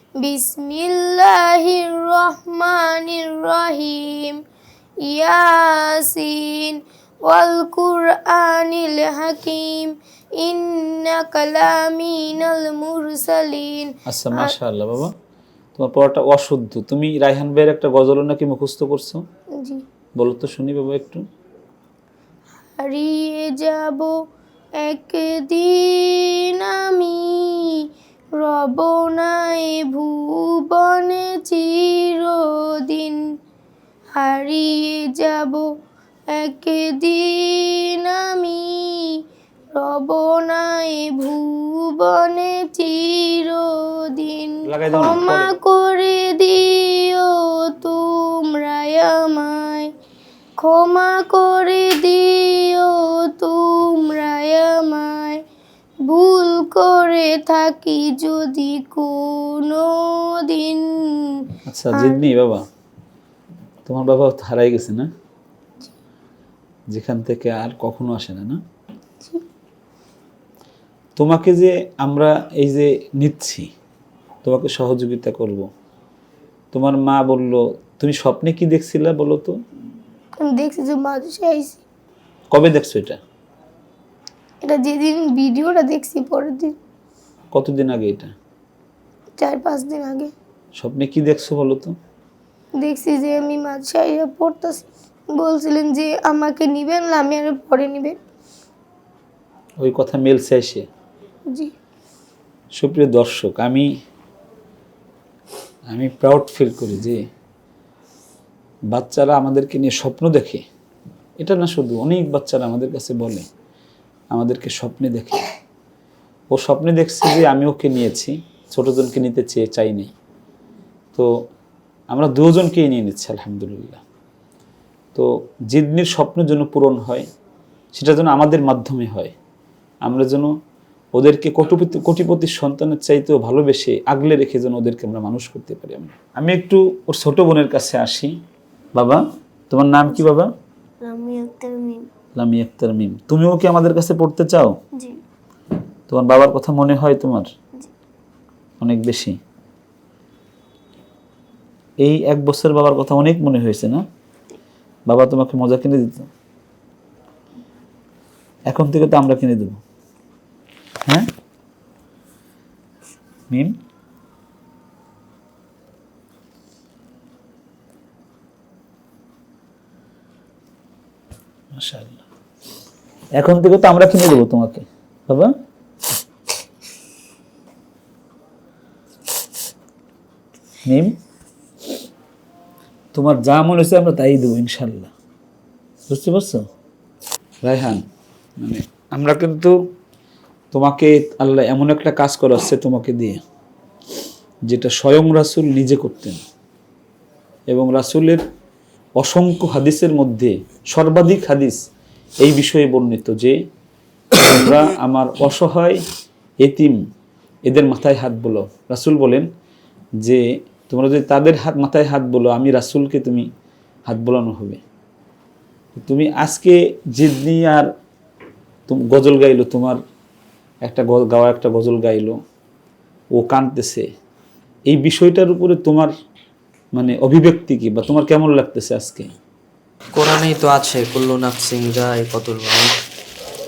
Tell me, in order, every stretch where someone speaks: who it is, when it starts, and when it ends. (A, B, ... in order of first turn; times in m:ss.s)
0:00.2-0:04.4 A
0:05.0-0:14.5 A
0:14.1-0:15.1 B
0:15.8-0:19.2 B
0:20.2-0:21.2 B
0:22.8-0:24.1 A
0:24.8-0:27.9 A
0:28.4-0:33.2 A
0:34.2-0:35.6 A
0:36.3-0:39.2 A
0:39.7-0:49.9 A
0:44.6-0:45.5 B
0:50.6-0:55.4 A
0:56.0-1:02.2 A
1:01.7-1:02.6 B
1:03.8-1:05.1 B
1:06.9-1:08.6 B
1:11.2-1:13.7 B
1:14.4-1:15.7 B
1:16.7-1:19.5 B
1:20.4-1:21.8 A
1:22.5-1:23.2 B
1:24.6-1:26.8 A
1:27.5-1:28.3 B
1:29.4-1:30.3 A
1:30.8-1:31.9 B
1:32.8-1:38.2 A
1:39.8-1:40.8 B
1:42.8-1:43.9 B
1:45.9-1:47.2 B
1:48.9-1:50.6 B
1:51.4-1:53.4 B
1:54.3-1:55.4 B
1:56.5-2:00.1 B
2:02.1-2:04.0 B
2:05.1-2:07.3 B
2:07.9-2:09.3 B
2:10.0-2:10.5 B
2:11.2-2:18.3 B
2:18.9-2:20.5 B
2:21.0-2:22.0 A
2:22.4-2:24.7 B
2:26.1-2:27.5 B
2:28.8-2:29.4 B
2:32.0-2:34.0 B
2:35.1-2:36.3 B
2:38.7-2:39.8 B
2:51.7-2:52.2 B
2:53.4-2:55.5 B
3:00.9-3:01.1 B
3:03.1-3:05.1 B
3:06.1-3:06.6 B
3:07.6-3:08.0 B
3:08.6-3:09.7 B
3:10.7-3:13.4 B
3:14.7-3:16.4 B
3:17.7-3:18.4 B
3:19.2-3:21.8 B
3:22.4-3:23.6 B
3:24.3-3:26.0 B
3:26.6-3:27.0 B
3:27.7-3:29.5 B
3:30.2-3:33.5 B
3:34.1-3:34.8 B
3:36.0-3:37.9 B
3:38.9-3:40.0 B
3:40.8-3:42.3 B
3:43.4-3:44.0 B
3:44.9-3:46.1 B
3:46.9-3:49.3 B
3:50.2-3:52.9 C